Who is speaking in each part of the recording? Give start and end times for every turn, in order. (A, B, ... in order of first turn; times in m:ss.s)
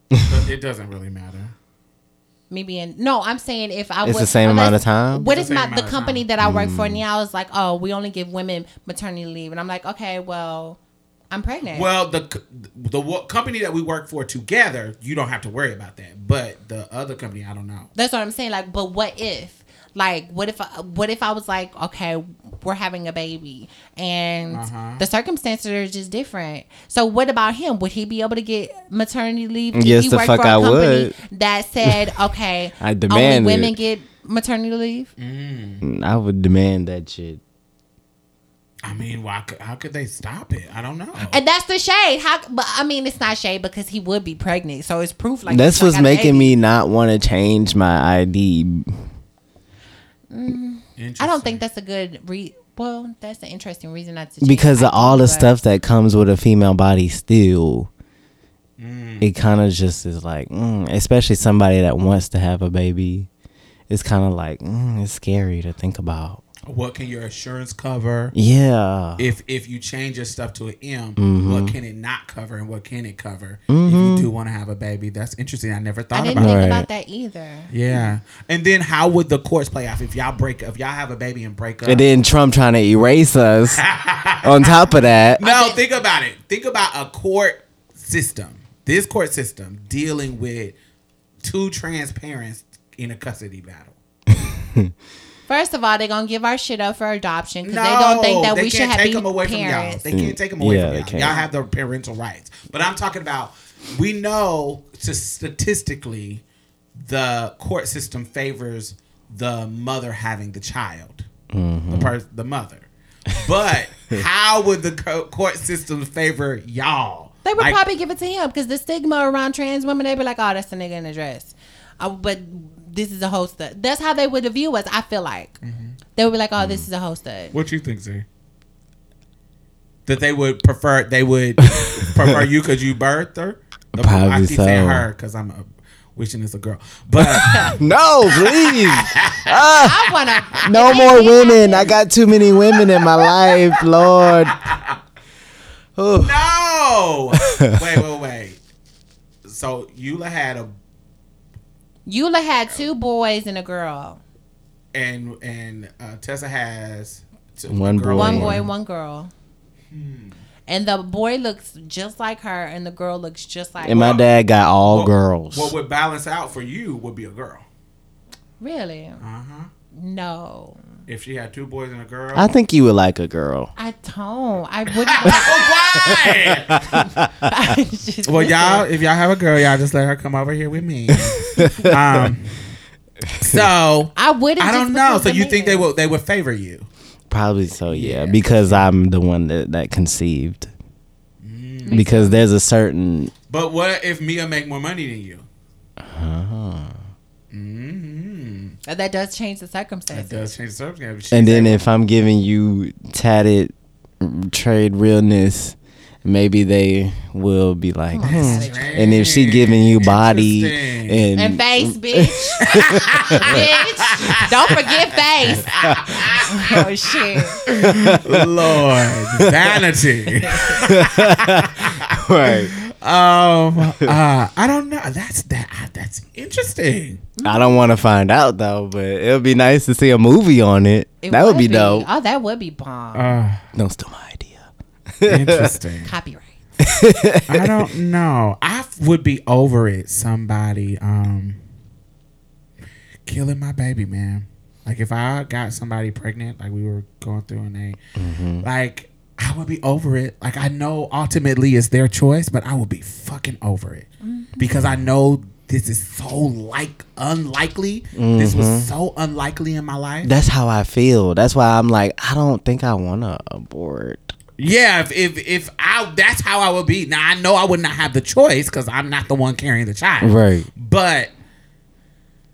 0:00.2-0:01.5 A
0:02.5-0:10.8 B
0:04.0-0:05.2 C
0:05.2-0:06.2 A
0:06.4-0:07.0 C
0:11.3-0:11.9 B
0:11.7-0:17.9 A
0:18.0-0:35.1 B
0:24.5-0:25.0 A
0:29.7-0:31.1 C
0:32.8-0:33.7 C
0:35.2-0:35.8 A
0:35.8-0:37.4 C
0:38.8-0:41.4 A
0:41.3-0:46.5 B
0:45.5-0:49.1 C
0:50.3-0:55.5 B
0:51.0-0:51.6 A
0:54.4-0:57.9 C
0:58.8-0:59.3 A
0:59.2-1:03.3 C
1:03.9-1:06.4 C
1:06.7-1:08.4 A
1:08.3-1:09.2 C
1:09.2-1:16.6 A
1:11.2-1:11.8 C
1:13.7-1:14.3 C
1:16.1-1:17.7 B
1:16.4-1:16.9 C
1:17.7-1:22.1 A
1:21.9-1:23.8 C
1:23.8-1:24.7 A
1:24.4-1:25.4 C
1:25.4-1:30.8 A
1:25.4-1:25.8 B
1:31.4-1:34.0 A
1:34.6-1:34.9 C
1:35.5-1:40.0 B
1:37.6-1:46.4 A
1:40.1-1:41.4 C
1:47.0-1:51.3 A
1:51.5-1:52.1 C
1:51.9-1:57.8 A
1:57.4-2:05.6 B
2:05.6-2:06.0 A
2:06.2-2:07.5 B
2:06.6-2:06.9 C
2:07.5-2:08.2 A
2:10.1-2:17.8 A
2:11.7-2:12.4 C
2:13.9-2:15.1 C
2:17.2-2:20.1 C
2:17.5-2:17.7 B
2:18.3-2:19.5 A
2:19.8-2:22.0 B
2:20.6-2:24.6 C
2:24.6-2:25.0 A
2:26.0-2:26.4 C
2:26.2-2:28.6 A
2:29.4-2:30.7 A
2:32.1-2:34.2 B
2:34.9-2:38.7 A
2:37.7-2:38.7 C
2:38.1-2:39.3 B
2:39.9-2:40.4 A
2:40.7-2:44.1 B
2:43.8-2:45.7 C
2:43.9-2:44.2 A
2:44.9-2:47.6 A
2:48.6-2:49.2 B
2:49.2-2:49.7 A
2:49.9-2:50.8 B
2:51.1-2:52.5 A
2:52.3-2:53.7 C
2:53.8-2:55.8 B
2:55.0-2:57.0 A
2:56.3-2:57.3 C
2:57.4-2:58.9 B
2:58.2-3:02.8 A
3:01.5-3:02.3 C
3:03.4-3:06.9 A
3:04.2-3:05.9 B
3:07.3-3:10.7 C
3:07.9-3:08.9 A
3:11.4-3:12.0 A
3:11.8-3:12.4 B
3:11.9-3:13.3 C
3:13.5-3:15.4 A
3:16.0-3:17.0 C
3:17.5-3:18.8 A
3:18.9-3:20.5 B
3:20.1-3:21.8 A
3:21.3-3:33.7 C
3:28.1-3:29.1 B
3:28.3-3:31.3 A
3:31.4-3:35.7 B
3:32.6-3:36.8 A
3:35.5-3:36.8 C
3:36.5-3:37.6 B
3:37.7-3:39.8 C
3:37.7-3:47.2 A
3:40.5-3:42.7 C
3:47.4-3:47.8 B
3:47.4-3:52.1 C
3:51.2-3:53.4 B
3:53.1-3:53.6 A
3:53.8-3:55.7 C
3:55.2-3:56.1 A
3:56.1-3:56.6 B
3:56.8-3:57.7 C
3:57.5-4:01.6 A
4:03.3-4:08.0 A
4:08.2-4:08.6 C
4:08.6-4:14.1 A
4:14.2-4:14.7 B
4:14.6-4:20.3 A
4:18.2-4:18.9 C
4:20.2-4:24.3 C
4:24.6-4:31.3 A
4:30.2-4:30.7 C